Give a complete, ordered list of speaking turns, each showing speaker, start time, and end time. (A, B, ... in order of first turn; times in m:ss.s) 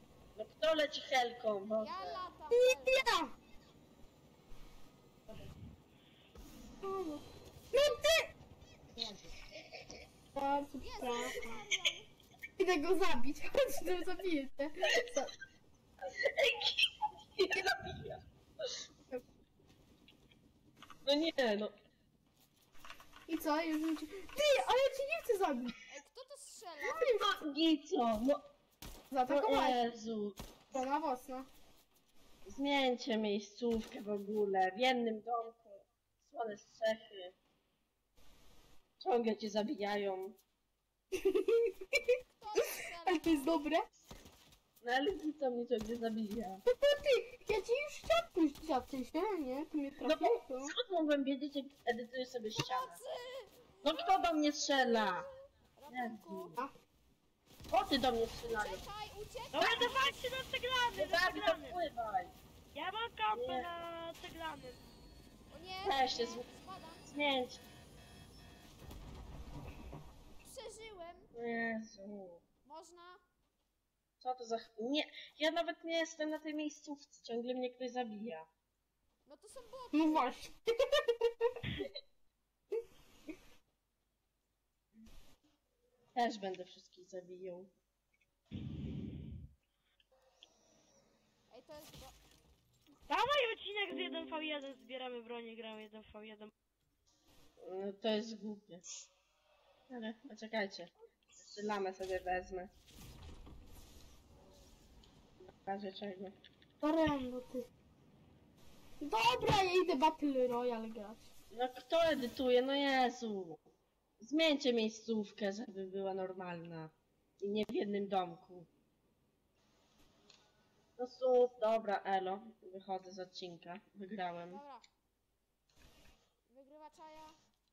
0:00.4-0:02.2 A
0:01.8-0:03.1 B
0:02.5-0:03.3 C
0:06.8-0:08.3 C
0:10.3-0:11.6 C
0:10.8-0:12.1 B
0:12.6-0:15.3 C
0:16.0-0:18.8 A
0:21.0-0:21.7 A
0:23.3-0:25.7 C
0:25.9-0:27.2 B
0:26.9-0:27.3 C
0:26.9-0:28.5 A
0:29.1-0:29.8 C
0:29.2-0:30.4 A
0:30.7-0:31.5 C
0:32.4-0:37.3 A
0:39.0-0:40.4 A
0:41.1-0:43.9 C
0:42.2-0:43.6 B
0:44.8-0:46.6 A
0:46.7-0:50.7 C
0:50.0-0:53.0 A
0:52.6-0:56.6 B
0:53.8-0:55.3 A
0:55.9-0:56.6 A
0:57.7-0:58.8 A
0:58.4-1:00.2 B
0:59.5-1:01.8 D
1:00.9-1:02.3 A
1:02.7-1:04.8 D
1:03.3-1:03.7 A
1:05.5-1:07.1 B
1:05.8-1:06.4 A
1:07.1-1:07.6 A
1:10.4-1:11.3 B
1:11.3-1:12.4 A
1:12.6-1:13.2 B
1:14.2-1:18.5 A
1:19.2-1:20.3 B
1:19.9-1:21.5 C
1:26.1-1:27.7 A
1:31.5-1:32.2 B
1:33.1-1:36.5 D
1:37.6-1:38.8 A
1:39.9-1:42.7 A
1:45.4-1:46.4 A
1:46.8-1:47.7 C
1:49.0-1:51.2 C
1:51.5-1:53.6 A
1:54.2-1:58.7 A
2:01.0-2:04.6 A
2:04.5-2:04.8 B
2:06.5-2:07.4 B